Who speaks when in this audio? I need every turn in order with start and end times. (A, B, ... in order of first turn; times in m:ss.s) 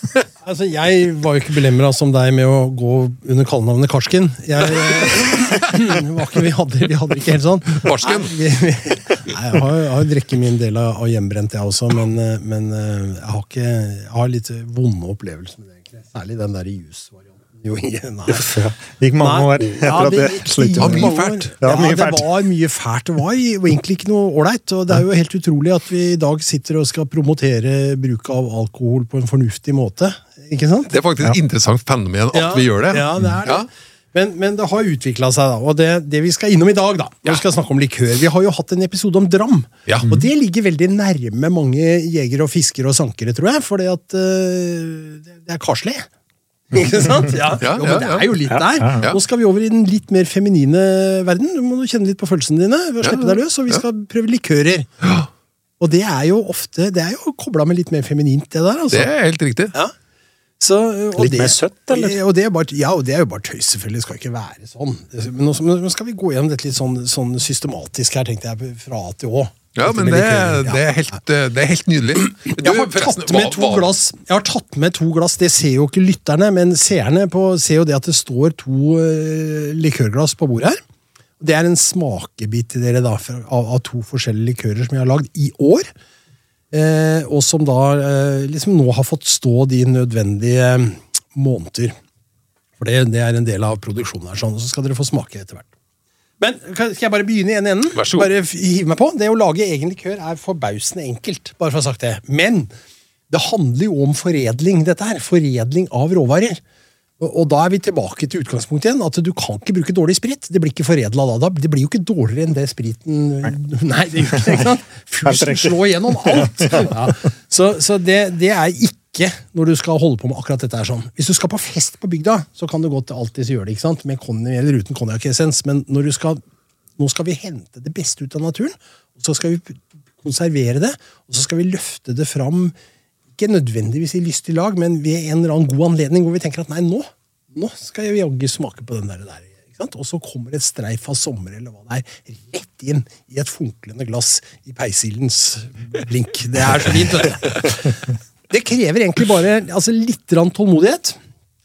0:00.4-0:18.5 A
0:07.8-0:08.3 B
0:18.3-0:22.3 C
0:19.2-0:30.9 A
0:20.8-0:21.5 B
0:30.9-0:33.7 B
0:32.3-0:46.1 A
0:46.7-0:54.9 A
0:47.6-0:48.3 B
0:48.5-0:49.1 C
0:53.0-0:53.8 B
0:55.0-0:55.3 B
0:55.8-0:59.1 A
0:58.9-0:59.7 B
1:00.6-1:10.8 A
1:01.2-1:02.2 C
1:09.8-1:13.9 B
1:12.3-1:20.8 A
1:21.4-1:25.9 A
1:26.7-1:31.9 A
1:32.8-1:35.7 A
1:36.4-1:42.7 A
1:38.0-1:38.3 B
1:43.3-1:46.6 A
1:47.2-2:06.4 A
1:54.3-1:54.6 C
1:55.2-1:57.1 C
2:07.0-2:12.7 A
2:13.4-2:28.0 A
2:28.5-2:31.2 A